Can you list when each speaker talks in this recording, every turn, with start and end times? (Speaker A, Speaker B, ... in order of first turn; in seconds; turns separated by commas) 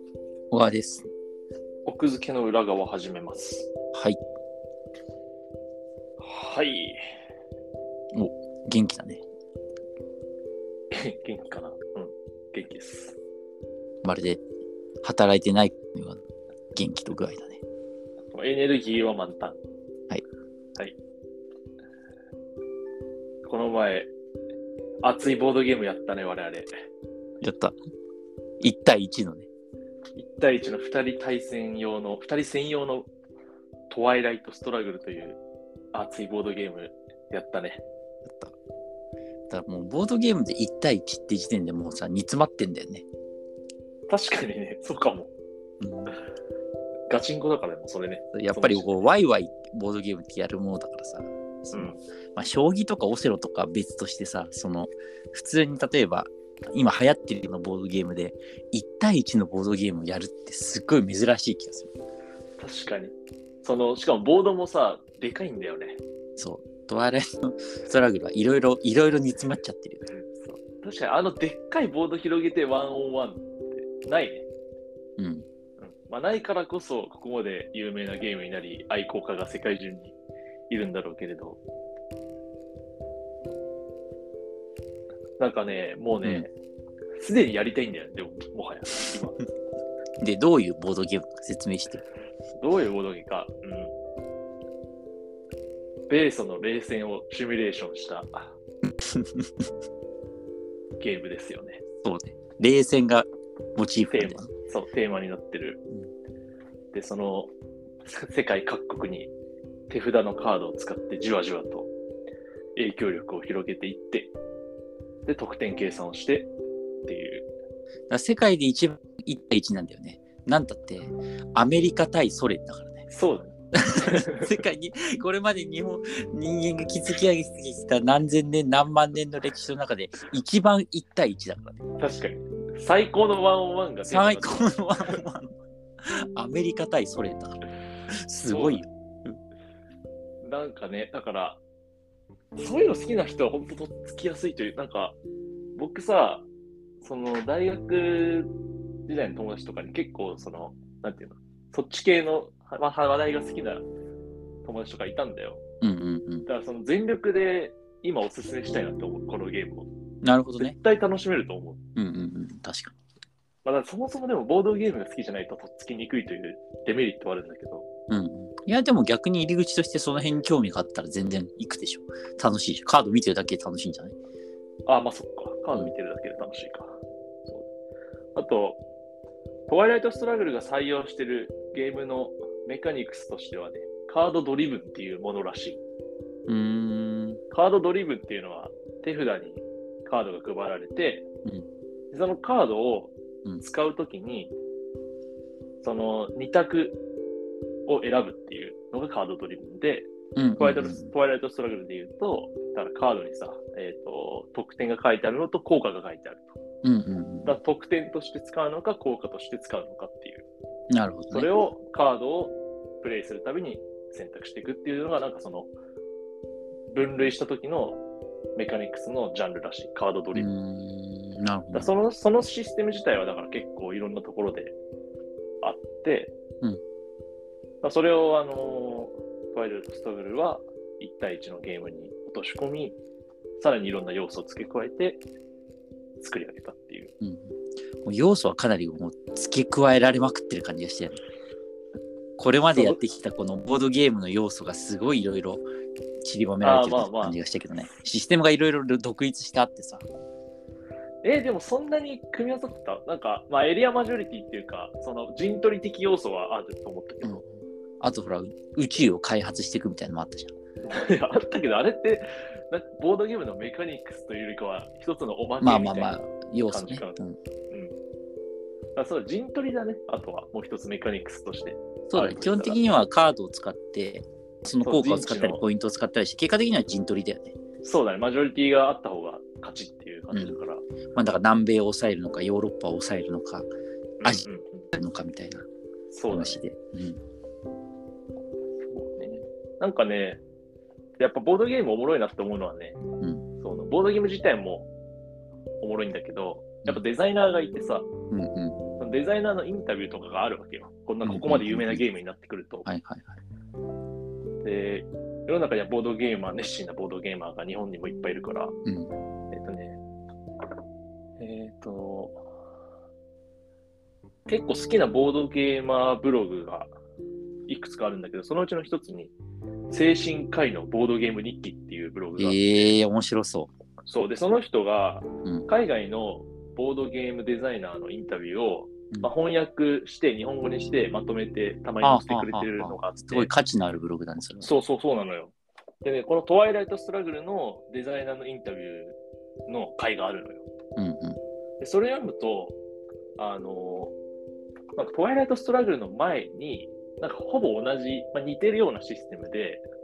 Speaker A: 0.5-1.1, Speaker B: 1.9-3.7, Speaker A: 3.9-4.2, Speaker B: 6.2-7.0, Speaker A: 8.1-9.2, Speaker B: 10.9-13.2, Speaker A: 14.0-14.4, Speaker A: 15.0-16.2, Speaker A: 16.8-17.6, Speaker B: 18.3-19.6, Speaker B: 23.4-24.1, Speaker B: 25.0-26.7, Speaker A: 27.4-27.8, Speaker A: 28.6-29.5, Speaker B: 30.2-33.1, Speaker B: 33.9-35.4, Speaker B: 35.9-37.8, Speaker A: 38.3-38.5, Speaker A: 39.5-43.1, Speaker B: 44.1-45.3, Speaker A: 45.8-46.2, Speaker B: 47.1-48.9, Speaker A: 48.3-61.9, Speaker B: 51.7-52.0, Speaker B: 62.6-66.0, Speaker A: 66.4-70.0, Speaker B: 70.3-74.5, Speaker A: 75.2-75.5, Speaker B: 75.8-80.2, Speaker B: 80.7-81.6, Speaker B: 85.4-86.5, Speaker B: 87.2-89.4, Speaker A: 90.2-92.0, Speaker B: 92.6-93.9, Speaker B: 96.1-98.5, Speaker A: 99.0-99.5, Speaker B: 101.0-101.8, Speaker A: 102.0-104.5, Speaker B: 104.1-105.8, Speaker B: 106.9-107.5, Speaker B: 108.0-109.3, Speaker B: 109.9-111.9, Speaker B: 112.8-114.3, Speaker B: 115.3-116.5, Speaker B: 117.1-117.5, Speaker A: 118.1-123.1, Speaker B: 123.1-124.5, Speaker A: 123.7-131.8, Speaker B: 132.0-135.2, Speaker A: 134.1-139.3, Speaker B: 138.5-138.8, Speaker B: 140.4-141.6, Speaker B: 142.6-145.2, Speaker B: 145.8-146.5, Speaker B: 147.0-148.5, Speaker B: 149.1-153.9, Speaker B: 154.6-155.6, Speaker A: 155.8-156.5, Speaker B: 156.5-159.9, Speaker A: 160.2-160.8, Speaker B: 160.6-161.8, Speaker A: 162.0-163.0, Speaker B: 163.6-167.9, Speaker A: 168.1-174.2, Speaker B: 174.9-177.7, Speaker B: 178.3-178.8, Speaker B: 179.7-185.8, Speaker A: 186.5-187.4, Speaker B: 187.5-191.3, Speaker B: 192.1-194.5, Speaker B: 195.8-197.0, Speaker B: 197.9-206.6, Speaker A: 200.4-201.1, Speaker A: 206.8-207.6, Speaker B: 207.4-210.5, Speaker A: 210.9-211.5, Speaker B: 211.3-215.7, Speaker B: 216.9-218.0, Speaker B: 218.6-220.5, Speaker A: 220.3-221.9, Speaker B: 221.7-224.8, Speaker B: 225.6-226.3, Speaker B: 227.8-233.0, Speaker B: 233.6-235.2, Speaker B: 236.2-237.1, Speaker A: 237.2-241.2, Speaker A: 242.4-245.6, Speaker B: 242.7-243.0, Speaker A: 246.2-250.1, Speaker B: 246.6-247.4, Speaker B: 251.2-257.4, Speaker A: 257.2-260.5, Speaker B: 260.8-267.2, Speaker A: 265.6-267.4, Speaker B: 269.0-272.8, Speaker A: 272.1-277.6, Speaker B: 274.8-275.6, Speaker B: 277.8-280.9, Speaker A: 280.3-280.6, Speaker A: 281.1-283.7, Speaker B: 284.2-284.9, Speaker A: 284.2-285.7, Speaker B: 286.1-286.6, Speaker A: 286.3-287.2, Speaker B: 288.9-290.4, Speaker B: 291.2-293.0, Speaker A: 293.2-293.5, Speaker B: 293.6-294.9, Speaker B: 295.8-298.1, Speaker A: 298.3-298.8, Speaker B: 299.0-302.9, Speaker A: 301.2-302.1, Speaker A: 302.9-303.4, Speaker B: 304.6-308.8, Speaker A: 308.9-309.1, Speaker B: 309.5-310.0, Speaker B: 311.4-312.4, Speaker B: 314.5-316.9, Speaker B: 317.7-319.3, Speaker B: 319.9-322.9, Speaker A: 322.4-323.7, Speaker B: 324.1-333.5, Speaker A: 332.0-334.7, Speaker B: 334.6-340.7, Speaker A: 341.0-341.4, Speaker B: 341.8-342.8, Speaker B: 343.4-344.1, Speaker B: 345.0-349.8